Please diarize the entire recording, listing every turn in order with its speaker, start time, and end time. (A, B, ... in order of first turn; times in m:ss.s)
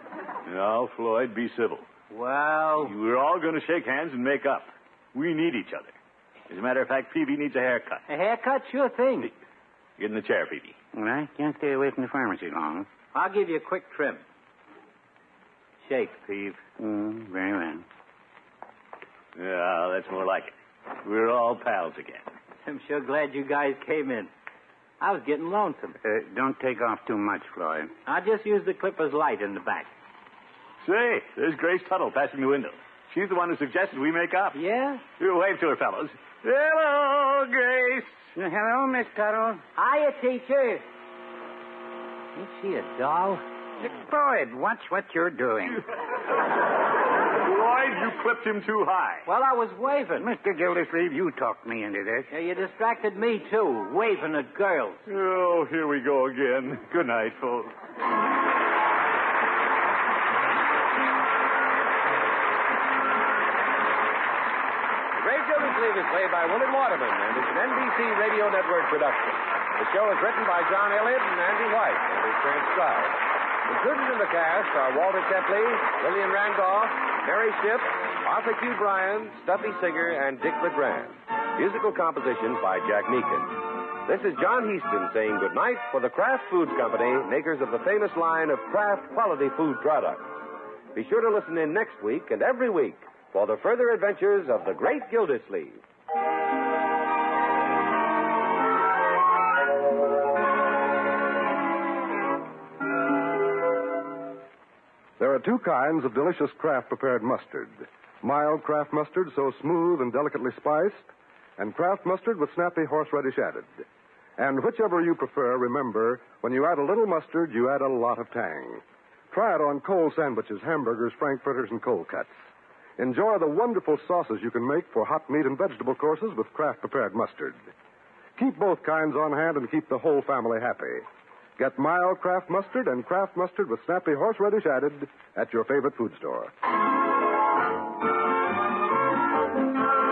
0:00.4-0:01.9 A
0:02.1-0:03.0 B
0:02.8-0:05.9 A
0:06.5-0:08.0 A
0:08.1-0:09.3 B
0:10.0-0:10.8 A
0:10.9-0:12.9 C
0:13.1-0:14.2 B
0:15.8-0:16.6 B
0:16.8-0:17.8 C
0:19.4-0:22.3 A
0:22.6-0:24.3 B
0:25.0-0:26.0 B
0:26.0-0:27.9 C
0:28.0-0:29.9 B
0:30.8-0:34.6 A
0:34.5-0:35.0 B
0:35.1-0:38.3 A
0:38.3-0:39.6 C
0:39.8-0:40.8 B
0:42.3-0:43.4 B
0:43.8-0:45.8 C
0:47.4-0:49.2 A
0:49.2-0:50.3 B
0:50.2-0:52.3 C
0:52.3-0:55.0 B
0:55.1-0:57.7 A
1:05.2-1:30.4 D
1:30.9-1:35.8 D
1:45.2-1:53.8 E
1:54.4-2:02.4 E
2:03.0-2:07.6 E
2:08.4-2:11.0 E
2:11.6-2:16.5 E